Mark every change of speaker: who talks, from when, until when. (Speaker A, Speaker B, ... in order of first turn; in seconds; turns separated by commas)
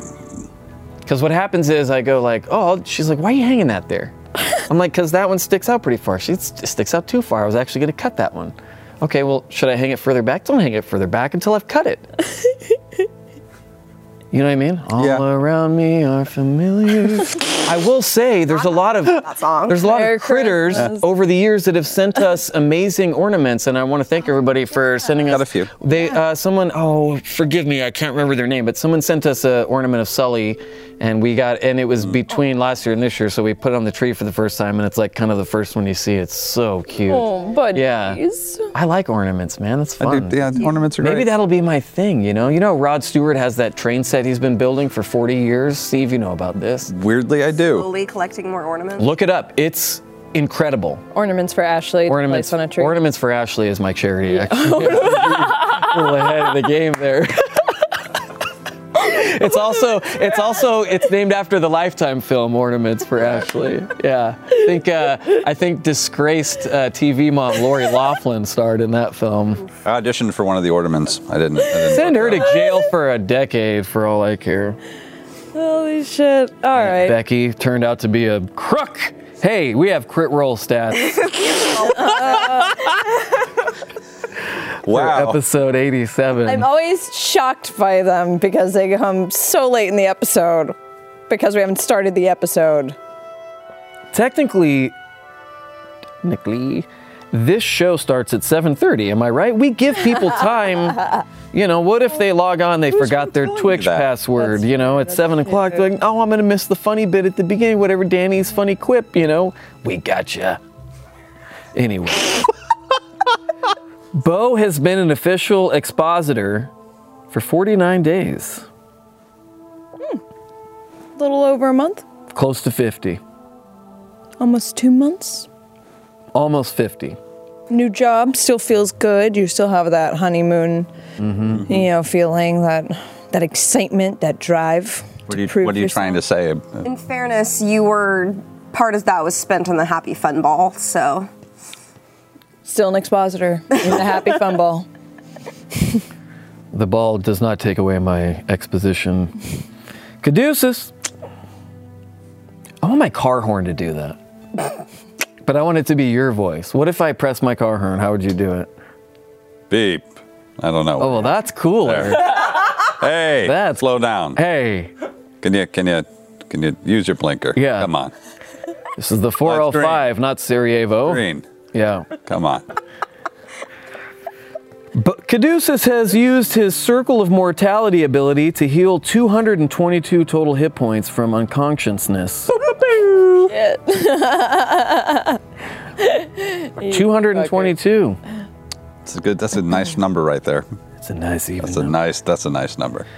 Speaker A: 1.1-12.1, Speaker A: 14.3-38.2, Speaker B: 15.0-15.2, Speaker C: 18.5-19.9, Speaker D: 19.8-21.0, Speaker B: 25.3-25.7, Speaker D: 37.1-38.7, Speaker A: 38.7-40.5, Speaker B: 40.0-41.3, Speaker A: 41.0-46.9, Speaker B: 46.9-47.9, Speaker C: 47.6-49.1, Speaker A: 49.0-51.0, Speaker D: 51.1-53.0, Speaker A: 52.1-57.7, Speaker D: 54.4-56.0, Speaker A: 59.0-69.7, Speaker B: 69.8-72.5, Speaker A: 71.9-74.8, Speaker D: 75.5-77.2, Speaker A: 76.7-81.4, Speaker C: 81.7-82.5, Speaker D: 81.8-83.0, Speaker B: 84.8-85.4, Speaker A: 84.8-86.7, Speaker D: 86.5-90.8, Speaker D: 91.3-93.0, Speaker A: 94.1-94.9, Speaker A: 96.2-110.6, Speaker B: 103.1-104.1, Speaker D: 104.4-105.8, Speaker A: 111.8-112.5, Speaker A: 114.2-116.7, Speaker A: 117.3-118.7, Speaker D: 121.2-122.0, Speaker A: 122.3-123.2, Speaker D: 124.4-125.5, Speaker A: 126.3-127.2, Speaker D: 127.7-130.9, Speaker A: 131.2-131.7, Speaker B: 131.5-131.9, Speaker D: 131.7-136.2, Speaker B: 135.3-136.8, Speaker C: 136.8-141.3, Speaker D: 142.7-144.9, Speaker A: 146.7-149.3, Speaker A: 150.2-150.9, Speaker A: 152.8-154.2, Speaker A: 155.4-158.7, Speaker B: 159.7-164.4, Speaker A: 161.0-162.4, Speaker A: 163.4-164.9, Speaker B: 165.4-168.1, Speaker A: 167.6-167.9, Speaker A: 169.0-172.1, Speaker B: 169.4-170.1, Speaker B: 171.1-171.5, Speaker B: 172.2-172.7, Speaker A: 174.9-183.5, Speaker D: 183.5-185.4, Speaker D: 186.0-187.7, Speaker A: 186.8-188.2, Speaker B: 189.1-190.7, Speaker A: 191.0-192.0, Speaker B: 191.6-193.1